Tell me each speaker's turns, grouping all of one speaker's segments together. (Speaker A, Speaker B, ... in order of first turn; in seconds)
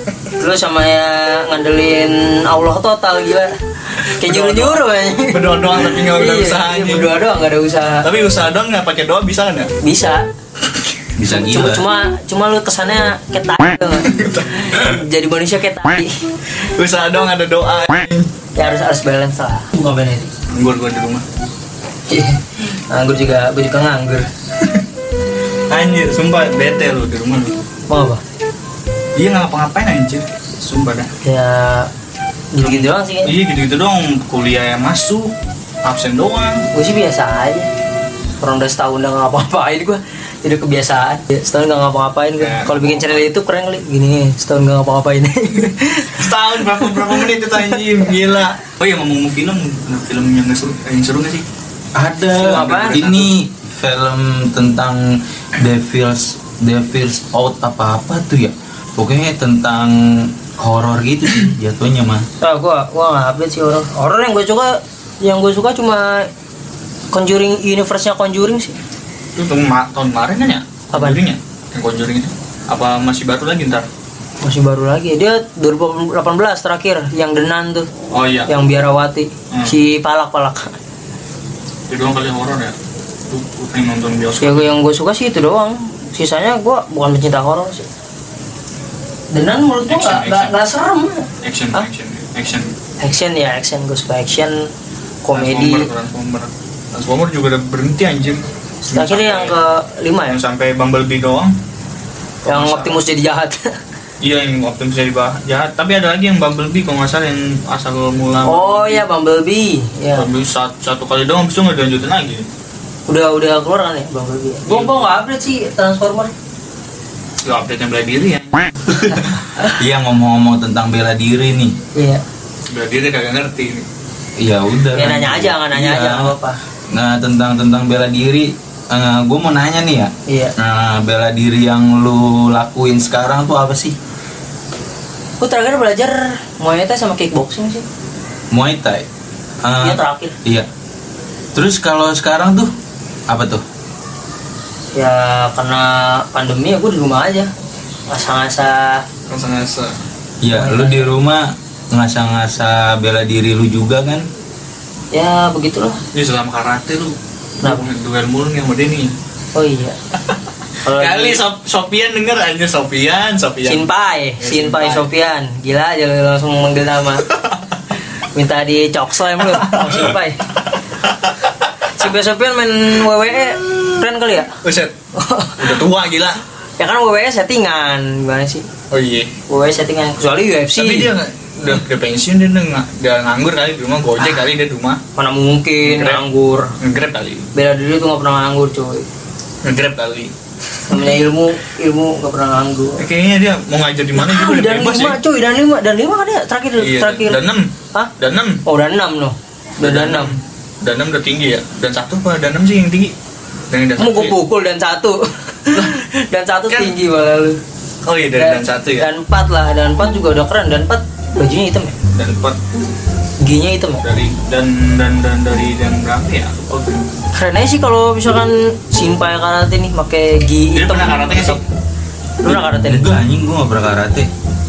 Speaker A: 0.4-8.1, 9.8-10.3, 11.2-16.1, 18.6-20.3, 22.1-24.3, 27.9-28.2, 31.2-31.9, 32.5-33.3, 36.7-37.7, 38.4-47.8, 52.4-53.0, 62.4-66.3, 67.1-68.8, 70.9-71.2, 74.4-77.9, 78.5-80.8, 84.4-87.8, 89.3-91.9, 93.0-94.5, 95.2-95.9, 98.9-100.4, 102.5-103.6, 108.5-110.3, 113.1-116.3, 122.0-122.2, 124.9-126.6, 130.3-130.6, 135.4-137.8, 139.8-140.4, 144.9-147.5, 148.1-149.0, 150.6-151.1, 155.1-156.0, 159.6-160.0, 160.8-161.4, 163.7-167.3, 168.3-170.4, 171.9-174.6, 175.2-175.8, 176.8-178.7, 179.5-181.1, 185.2-186.7, 187.6-189.1, 190.9-193.1, 194.2-198.1, 198.7-200.3, 204.0-207.6, 208.4-212.0, 213.4-214.0, 217.3-221.7, 222.4-223.2
Speaker B: 4.2-7.2, 8.0-9.7, 14.0-15.0, 16.6-18.3, 20.5-21.2, 25.7-27.6, 29.2-31.1, 32.6-35.3, 35.8-36.6, 42.4-43.3, 46.1-51.4, 52.4-53.3, 69.3-73.9, 78.1-78.5, 79.5-79.8, 81.9-82.8, 83.3-84.7, 89.9-90.6, 91.4-92.7, 95.3-99.5, 100.3-101.5, 102.4-103.0, 104.2-109.0, 110.2-112.5, 114.7-115.2, 117.4-119.2, 122.7-123.9, 149.3-149.9, 156.1-159.1, 160.9-163.9, 164.4-165.1, 169.5-170.1, 171.0-171.9, 174.6-174.9, 175.6-176.4, 178.9-179.3, 180.8-185.0, 185.8-186.2, 186.8-187.5, 189.6-190.3, 193.0-195.2, 196.8-198.6, 199.8-203.1, 203.7-204.4, 205.7-206.0, 206.7-206.9, 208.0-209.1, 212.1-212.6, 214.0-217.1, 220.7-221.6
Speaker C: 11.2-11.9, 52.0-62.3, 119.8-121.7, 124.4-126.3, 126.9-133.9, 138.5-139.1, 139.6-140.7, 141.5-142.7, 143.3-143.6, 150.4-154.3, 222.4-224.3